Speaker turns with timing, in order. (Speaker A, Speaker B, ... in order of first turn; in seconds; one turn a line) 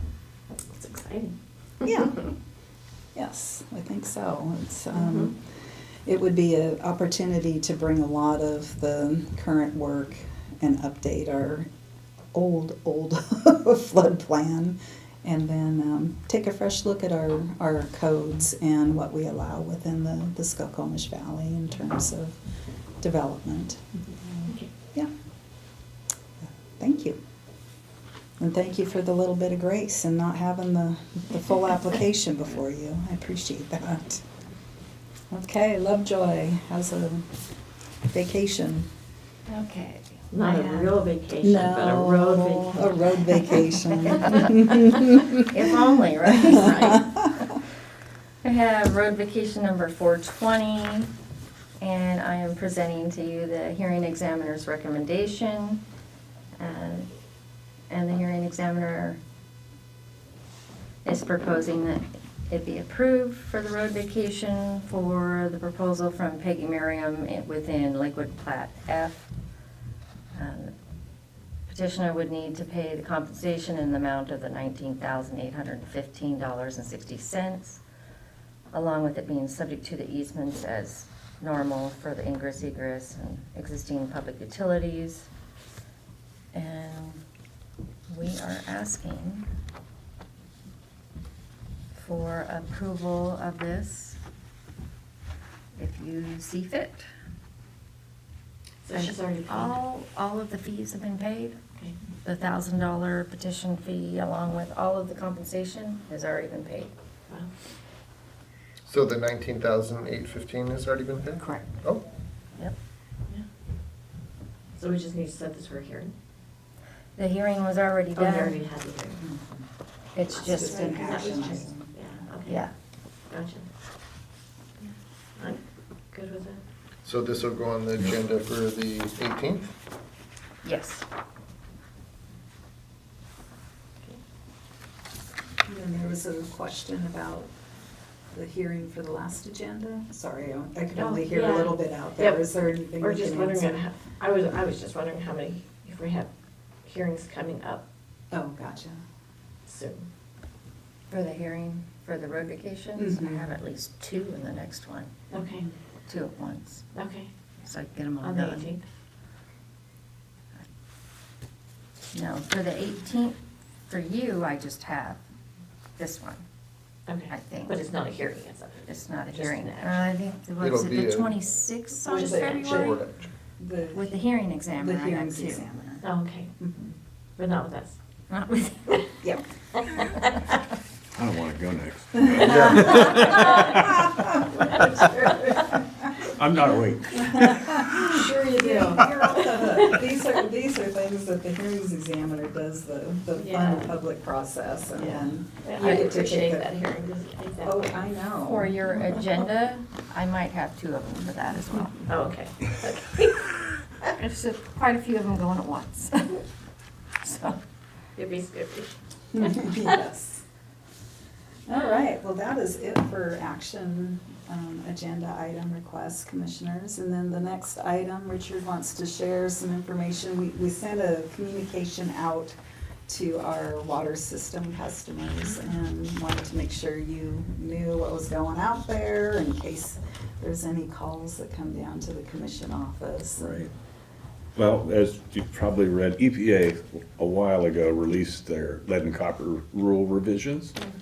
Speaker A: 0.7-1.3
Speaker B: 1.8-2.3
Speaker B: 3.1-5.4
Speaker A: 4.9-5.3
Speaker B: 6.0-11.7
Speaker B: 12.3-22.4
Speaker B: 23.0-25.1
Speaker B: 26.8-27.2
Speaker B: 28.4-34.2
Speaker B: 35.3-37.2
Speaker B: 38.1-38.9
Speaker C: 39.5-40.2
Speaker A: 40.3-43.5
Speaker B: 40.4-45.5
Speaker C: 45.4-47.5
Speaker B: 46.5-47.0
Speaker C: 48.4-51.1
Speaker C: 51.8-55.8
Speaker C: 56.6-57.1
Speaker C: 57.9-59.2
Speaker C: 61.0-69.3
Speaker C: 70.3-70.7
Speaker C: 71.7-77.8
Speaker C: 78.7-85.3
Speaker C: 86.5-87.2
Speaker C: 88.1-89.5
Speaker C: 91.9-94.2
Speaker C: 95.8-97.1
Speaker A: 98.8-99.7
Speaker C: 98.9-101.6
Speaker C: 102.2-106.9
Speaker D: 108.8-112.0
Speaker A: 114.7-116.1
Speaker C: 117.2-118.6
Speaker A: 118.1-119.2
Speaker B: 119.2-119.7
Speaker C: 120.1-121.3
Speaker B: 120.3-121.9
Speaker A: 120.4-122.6
Speaker C: 122.5-122.7
Speaker A: 123.3-123.7
Speaker A: 124.8-126.6
Speaker D: 127.0-129.7
Speaker C: 130.6-131.0
Speaker B: 135.6-137.5
Speaker B: 138.3-143.9
Speaker A: 140.9-146.3
Speaker A: 146.8-147.8
Speaker B: 148.3-149.0
Speaker A: 149.7-150.0
Speaker C: 151.1-155.1
Speaker B: 152.9-153.5
Speaker A: 155.3-155.6
Speaker C: 156.1-156.8
Speaker A: 156.9-157.3
Speaker C: 157.6-158.7
Speaker A: 158.2-158.8
Speaker C: 162.1-165.2
Speaker C: 166.0-166.4
Speaker A: 167.1-170.1
Speaker C: 167.3-167.8
Speaker C: 168.8-173.0
Speaker D: 170.6-171.3
Speaker A: 172.1-172.9
Speaker B: 172.1-173.1
Speaker D: 172.2-173.3
Speaker B: 173.6-174.2
Speaker C: 173.9-175.7
Speaker B: 174.7-176.1
Speaker A: 176.0-176.5
Speaker B: 176.6-176.9
Speaker A: 177.4-178.0
Speaker C: 178.3-178.9
Speaker A: 179.9-180.4
Speaker E: 181.1-184.0
Speaker A: 182.3-183.8
Speaker B: 182.5-184.3
Speaker A: 184.5-185.7
Speaker E: 186.3-188.2
Speaker B: 187.1-196.9
Speaker A: 188.1-189.9
Speaker A: 193.4-193.9
Speaker A: 195.6-197.9
Speaker B: 197.6-198.7
Speaker C: 198.3-202.0
Speaker A: 202.1-203.5
Speaker C: 204.2-206.4
Speaker C: 207.2-207.6
Speaker A: 208.2-209.9
Speaker B: 209.3-210.4
Speaker B: 211.7-222.6
Speaker B: 223.1-233.7
Speaker E: 233.4-233.7
Speaker E: 234.6-240.8